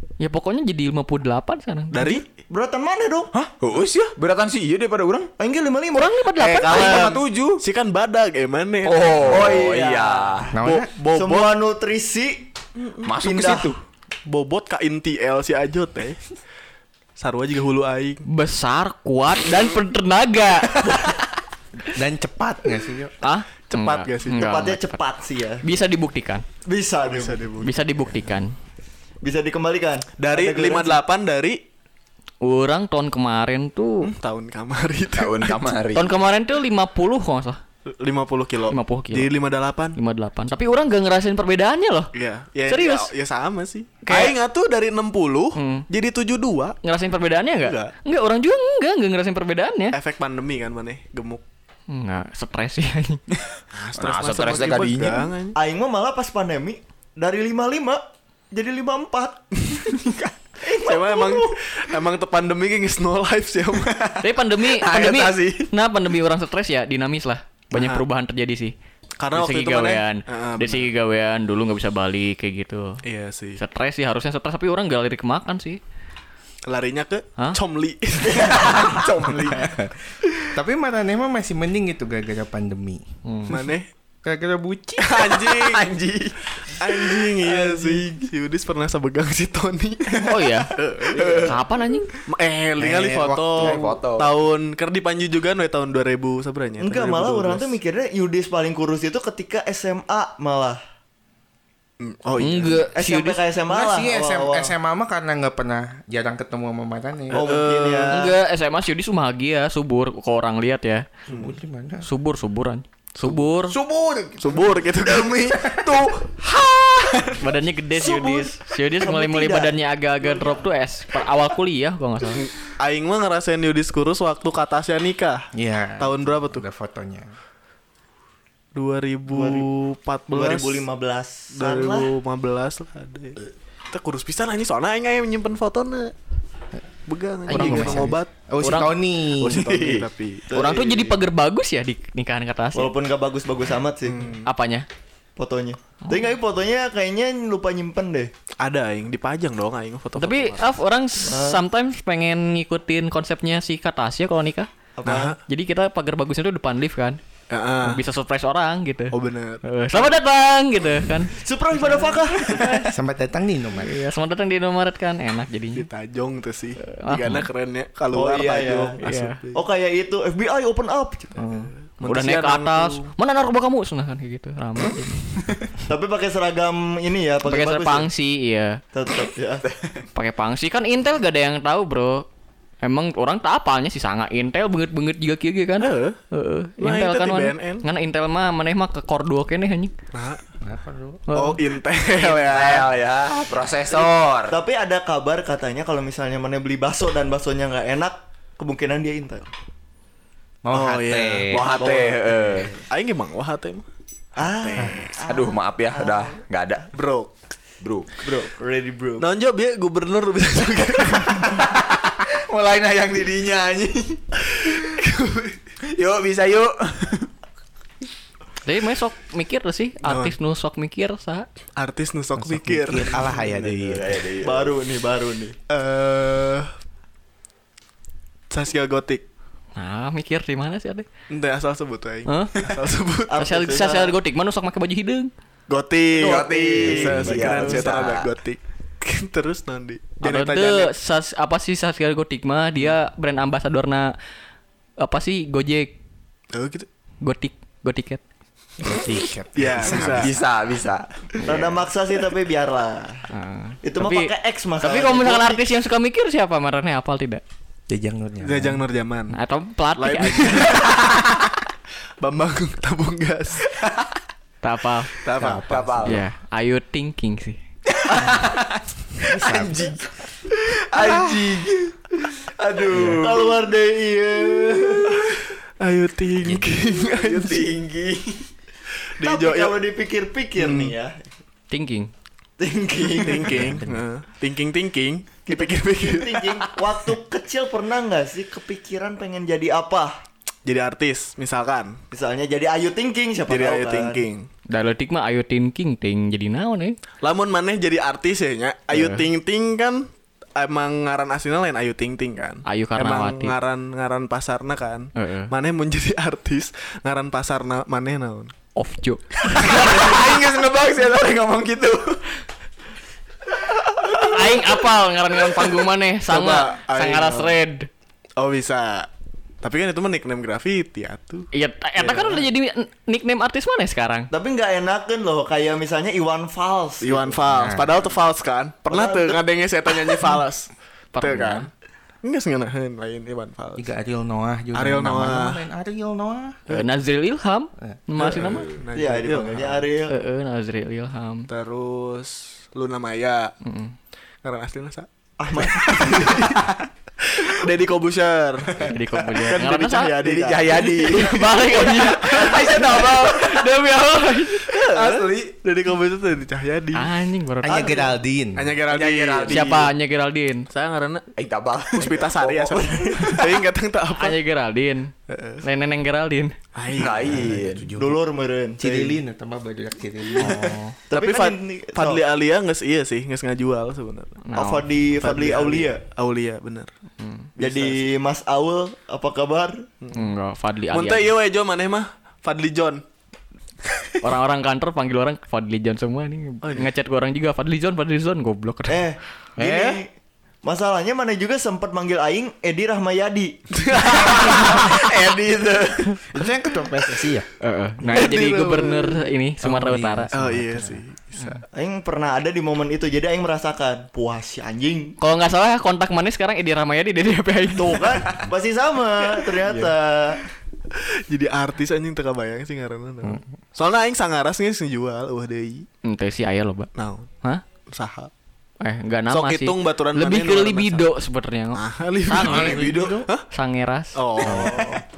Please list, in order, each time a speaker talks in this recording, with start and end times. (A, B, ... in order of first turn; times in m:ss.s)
0:00.2-0:02.2 A
0:01.9-0:02.2 B
0:02.0-0:03.3 C
0:03.3-0:05.3 D
0:05.4-0:07.2 C
0:05.9-0:07.1 A
0:06.7-0:07.6 D
0:06.7-0:09.5 B
0:08.8-0:10.5 D
0:09.2-0:10.5 C
0:10.5-0:10.9 E
0:10.6-0:11.6 B
0:11.1-0:12.4 C
0:13.0-0:13.8 D
0:13.2-0:13.7 C
0:14.3-0:16.3 B
0:17.2-0:18.2 B
0:18.3-0:21.0 A
0:21.9-0:23.1 E
0:23.2-0:25.0 A
0:23.7-0:24.5 B
0:24.3-0:25.6 C
0:25.6-0:26.4 A
0:26.6-0:27.4 C
0:27.0-0:27.7 B
0:27.6-0:28.5 A
0:29.2-0:31.0 C
0:30.2-0:31.6 B
0:32.4-0:34.1 A
0:34.0-0:35.8 B
0:35.1-0:36.1 D
0:35.9-0:37.6 A
0:37.9-0:40.0 B
0:38.7-0:39.3 A
0:40.0-0:42.1 A
0:42.1-0:46.8 B
0:42.7-0:43.1 A
0:44.0-0:44.3 A
0:45.6-0:45.8 A
0:46.8-0:50.0 A
0:47.6-0:47.9 B
0:49.9-0:51.4 B
0:51.9-0:53.2 A
0:53.5-0:55.3 D
0:53.7-0:55.6 B
0:55.6-0:59.6 C
1:00.0-1:00.3 D
1:00.6-1:01.7 C
1:00.7-1:03.9 B
1:03.8-1:05.7 D
1:04.2-1:08.7 A
1:07.7-1:08.0 B
1:09.2-1:10.9 B
1:09.3-1:13.0 A
1:13.0-1:13.6 B
1:13.6-1:15.8 A
1:16.7-1:18.8 B
1:18.3-1:19.8 D
1:20.5-1:23.0 E
1:23.2-1:23.6 A
1:23.5-1:23.9 B
1:24.2-1:25.3 E
1:25.0-1:25.8 B
1:25.4-1:27.0 D
1:26.7-1:31.6 B
1:30.2-1:30.7 A
1:31.1-1:31.6 D
1:31.4-1:32.1 A
1:32.3-1:37.8 B
1:32.8-1:33.8 E
1:33.6-1:34.3 D
1:36.8-1:40.8 C
1:42.0-1:42.9 B
1:42.4-1:43.4 A
1:42.9-1:44.7 C
1:43.7-1:47.4 E
1:47.3-1:48.2 B
1:47.3-1:48.3 C
1:48.1-1:51.0 A
1:51.3-1:51.5 B
1:51.3-1:52.0 E
1:52.0-1:53.8 A
1:53.7-1:57.5 D
1:54.4-1:55.6 B
1:57.4-2:02.5 A
1:57.9-2:00.6 C
2:02.4-2:05.4 B
2:05.5-2:07.3 E
2:06.0-2:06.6 B
2:08.7-2:10.8 B
2:09.3-2:09.7 C
2:10.3-2:12.1 C
2:11.5-2:16.1 B
2:17.1-2:18.3 B
2:17.5-2:19.8 E
2:17.5-2:18.9 A
2:19.2-2:20.4 B
2:19.6-2:19.9 D
2:20.5-2:21.2 C
2:20.5-2:22.9 A
2:22.7-2:24.3 C
2:24.0-2:24.5 B
2:24.4-2:24.8 A
2:25.4-2:28.3 C
2:28.6-2:30.7 B
2:30.2-2:34.7 A
2:31.3-2:31.6 C
2:35.0-2:35.4 C
2:35.0-2:35.4 B
2:35.4-2:37.2 A
2:37.5-2:38.0 B
2:37.8-2:41.3 A
2:39.1-2:40.0 B
2:41.3-2:42.8 C
2:42.0-2:42.9 A
2:42.9-2:43.9 E
2:43.8-2:45.8 A
2:45.7-2:49.6 B
2:46.8-2:47.4 A
2:48.1-2:48.9 C
2:49.0-2:49.4 A
2:49.5-2:51.7 C
2:51.4-2:55.3 A
2:51.5-2:53.1 B
2:55.8-2:58.1 C
2:57.4-2:58.8 A
2:58.9-2:59.6 C
2:59.7-3:00.0 D
3:00.1-3:02.2 A
3:02.8-3:09.9 A
3:05.8-3:06.2 B
3:06.8-3:07.8 B
3:10.1-3:10.4 B
3:10.6-3:11.2 E
3:11.3-3:11.6 A
3:11.3-3:12.9 B
3:12.1-3:14.6 D
3:13.9-3:19.5 C
3:20.6-3:21.6 E
3:20.7-3:21.7 B
3:21.5-3:22.7 D
3:21.7-3:22.8 C
3:22.9-3:23.8 B
3:24.4-3:26.3 C
3:24.4-3:25.2 B
3:25.2-3:26.9 D
3:26.9-3:27.3 B
3:27.8-3:28.1 D
3:28.2-3:29.2 C
3:29.2-3:31.6 B
3:31.5-3:34.8 D
3:34.8-3:35.6 B
3:35.9-3:37.3 D
3:38.6-3:41.5 A
3:40.0-3:40.3 B
3:41.8-3:43.3 B
3:42.4-3:44.2 E
3:43.5-3:44.7 D
3:44.4-3:45.6 C
3:45.7-3:46.7 B
3:48.5-3:49.2 B
3:49.8-3:51.1 A
3:51.3-3:53.4 B
3:52.3-3:52.6 A
3:53.3-3:54.1 C
3:53.4-3:55.3 A
3:55.7-4:00.9 B
3:56.2-3:58.3 D
3:56.2-3:58.0 C
4:00.2-4:04.1 A
4:05.0-4:05.9 A
4:06.5-4:06.9 B
4:07.2-4:08.2 A
4:08.8-4:10.4 E
4:09.5-4:10.3 B
4:10.0-4:11.6 D
4:11.4-4:13.2 C
4:13.3-4:17.4 A
4:13.8-4:15.6 C
4:17.9-4:18.8 E
4:18.4-4:19.4 B
4:19.3-4:20.8 A
4:20.0-4:21.0 B
4:20.8-4:21.2 D
4:22.2-4:23.7 B
4:24.6-4:25.1 A
4:25.2-4:26.0 B
4:25.2-4:26.2 D
4:25.4-4:26.1 E
4:26.0-4:27.6 A
4:27.9-4:30.1 D
4:29.4-4:29.8 E
4:30.9-4:31.9 D
4:31.0-4:31.4 E
4:32.6-4:33.6 D
4:32.9-4:33.2 E
4:33.2-4:35.2 C
4:35.8-4:37.7 B
4:36.4-4:36.8 E
4:37.1-4:38.5 D
4:39.1-4:39.8 B
4:39.2-4:41.3 C
4:40.6-4:40.9 B
4:41.7-4:42.1 A
4:42.6-4:43.8 C
4:43.2-4:46.5 B
4:43.5-4:44.0 E
4:45.5-4:50.2 C
4:50.6-4:52.0 B
4:52.1-4:54.2 C
4:53.5-4:54.5 B
4:54.7-4:57.0 A
4:57.2-5:08.5 B
4:58.9-4:59.2 A
5:02.6-5:03.5 A
5:05.2-5:05.5 A
5:08.7-5:09.7 A
5:09.4-5:12.4 D
5:14.0-5:14.6 D
5:14.2-5:17.9 A
5:16.3-5:17.5 B
5:18.4-5:19.1 B
5:19.6-5:21.5 B
5:21.5-5:24.3 A
5:22.0-5:22.4 B
5:24.3-5:27.4 C
5:27.0-5:31.7 B
5:27.5-5:27.9 E
5:28.9-5:29.4 C
5:31.2-5:31.7 A
5:32.2-5:33.9 B
5:33.8-5:36.6 E
5:34.7-5:35.6 B
5:36.7-5:38.7 A
5:38.2-5:39.8 B
5:39.0-5:40.1 C
5:40.1-5:41.5 A
5:41.5-5:43.5 B
5:43.6-5:43.9 A
5:44.4-5:46.6 B
5:45.4-5:46.5 C
5:47.2-5:48.8 B
5:48.8-5:49.4 D
5:48.8-5:50.1 A
5:49.5-5:51.4 B
5:50.2-5:50.8 C
5:50.3-5:53.7 D
5:51.1-5:54.7 A
5:52.2-5:52.9 C
5:54.7-5:55.5 D
5:54.7-5:57.1 B
5:56.9-5:58.0 A
5:57.6-5:58.7 E
5:57.6-5:58.1 C
5:58.6-5:59.9 B
5:58.9-5:59.8 D
5:59.5-6:00.7 A
6:00.7-6:01.3 B
6:01.4-6:02.6 D
6:02.0-6:04.4 B
6:02.1-6:03.6 C
6:04.2-6:05.1 A
6:05.3-6:05.6 B
6:05.6-6:06.5 A
6:06.7-6:07.4 B
6:06.9-6:07.9 D
6:07.2-6:08.2 E
6:08.0-6:09.2 C
6:08.8-6:10.9 E
6:11.1-6:12.2 C
6:11.1-6:14.4 B
6:14.4-6:14.8 A
6:14.6-6:16.0 C
6:15.2-6:16.9 B
6:17.2-6:17.5 A
6:17.6-6:19.8 C
6:17.6-6:18.0 B
6:20.0-6:20.3 B
6:20.1-6:21.3 A
6:20.9-6:23.0 B
6:24.2-6:29.0 A
6:26.6-6:26.9 B
6:28.9-6:30.1 C
6:29.6-6:30.0 E
6:30.6-6:33.6 C
6:33.8-6:34.8 B
6:34.1-6:36.2 D
6:36.3-6:37.5 E
6:37.6-6:40.3 A
6:38.0-6:38.3 C
6:38.0-6:39.2 B
6:39.6-6:41.0 E
6:40.3-6:41.6 B
6:41.7-6:45.2 C
6:45.2-6:48.2 A
6:47.7-6:50.4 C
6:49.6-6:49.9 B
6:50.9-6:55.9 B
6:56.0-6:56.9 A
6:57.0-6:57.3 B
6:57.9-6:58.3 B
6:58.8-7:04.5 A
6:59.3-7:01.1 B
7:01.7-7:03.5 B
7:02.4-7:03.3 E
7:04.1-7:05.0 B
7:04.4-7:05.0 C